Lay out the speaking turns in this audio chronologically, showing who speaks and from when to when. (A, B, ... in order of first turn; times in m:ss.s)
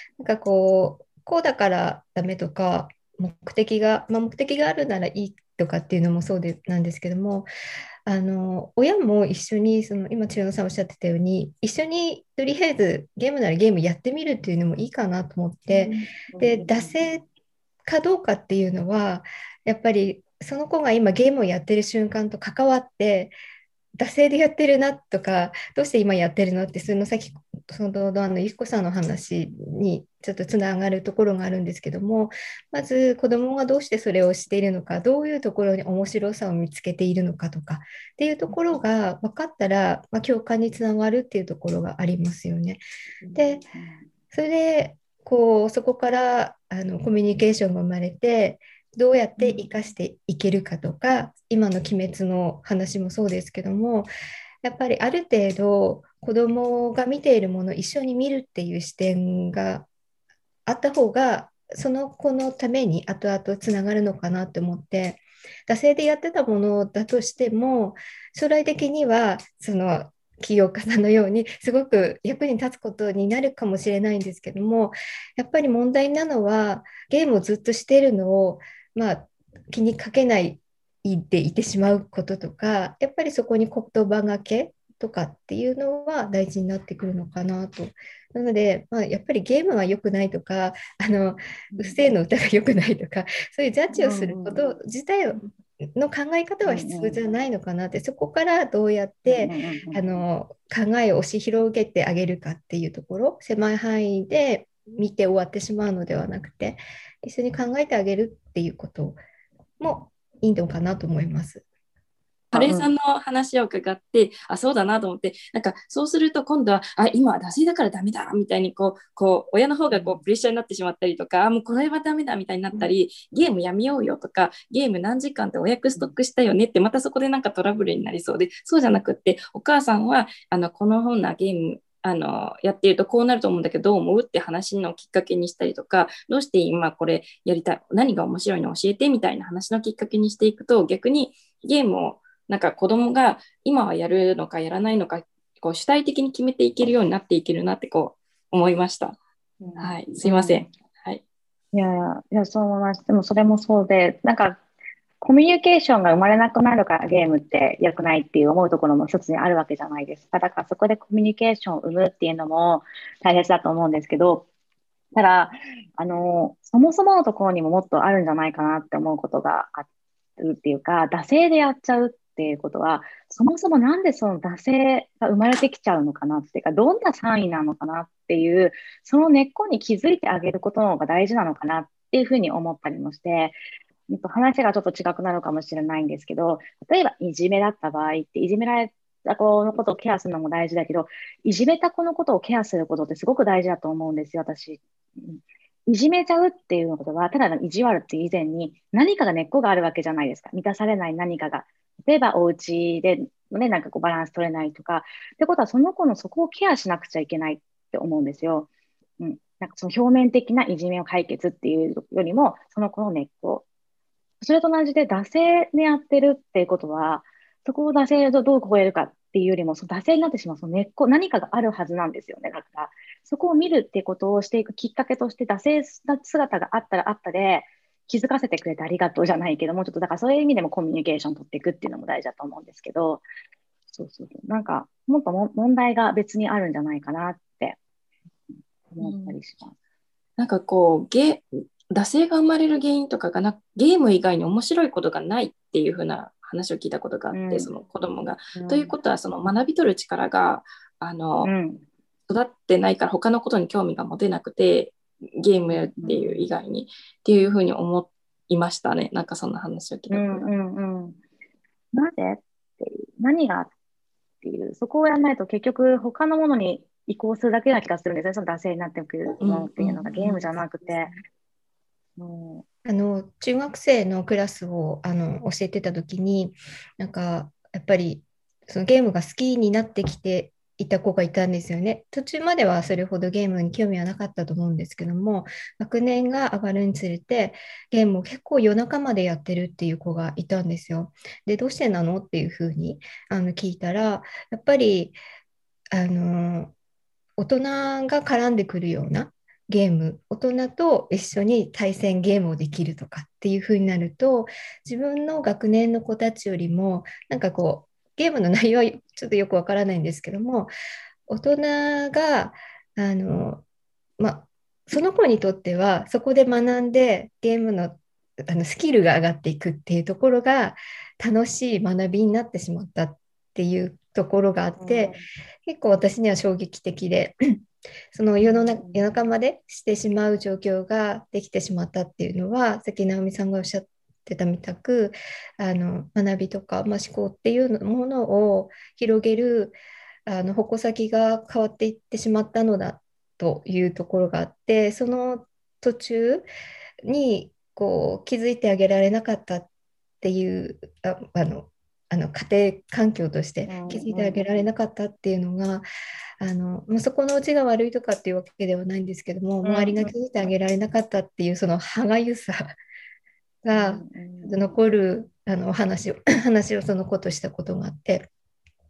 0:00.2-0:07.5 A
0:08.0-0:17.2 A
0:15.8-0:16.9 B
0:17.8-0:23.3 A
0:23.9-0:42.8 A
0:43.2-0:44.1 B
0:43.3-0:43.6 A
0:44.3-0:54.1 A
0:54.6-0:59.9 A
1:00.6-1:49.2 A
1:31.7-1:32.0 B
1:34.0-1:34.6 B
1:36.6-1:37.2 B
1:39.2-1:40.2 B
1:49.8-1:51.6 A
1:52.5-2:29.2 C
1:52.5-1:52.9 B
1:59.9-2:00.2 B
2:29.6-2:30.7 B
2:29.8-2:31.2 C
2:31.7-2:34.6 B
2:35.2-2:44.4 B
2:45.1-2:49.8 B
2:50.4-3:33.6 B
3:34.4-3:53.2 B
3:53.9-3:57.8 B
3:58.5-3:59.7 B
3:59.0-3:59.4 C
4:00.4-4:11.5 C
4:07.3-4:07.7 B
4:08.5-4:08.9 B
4:11.4-4:11.8 B
4:12.3-4:20.5 C
4:15.7-4:16.5 B
4:20.1-4:21.2 B
4:21.9-4:23.7 B
4:24.4-4:31.1 B
4:29.4-4:31.1 C
4:32.2-4:32.6 B
4:32.8-4:55.2 A
4:55.9-4:56.7 A
4:57.4-5:10.7 A
5:11.3-5:13.6 A
5:14.2-5:27.4 A
5:24.8-5:25.2 B
5:28.1-5:46.5 A
5:28.4-5:29.2 B
5:47.0-5:49.7 A
5:50.2-5:55.8 A
5:53.6-5:54.6 B
5:56.4-6:02.7 A
5:59.6-6:00.1 B
6:03.6-6:08.2 A
6:03.7-6:04.6 B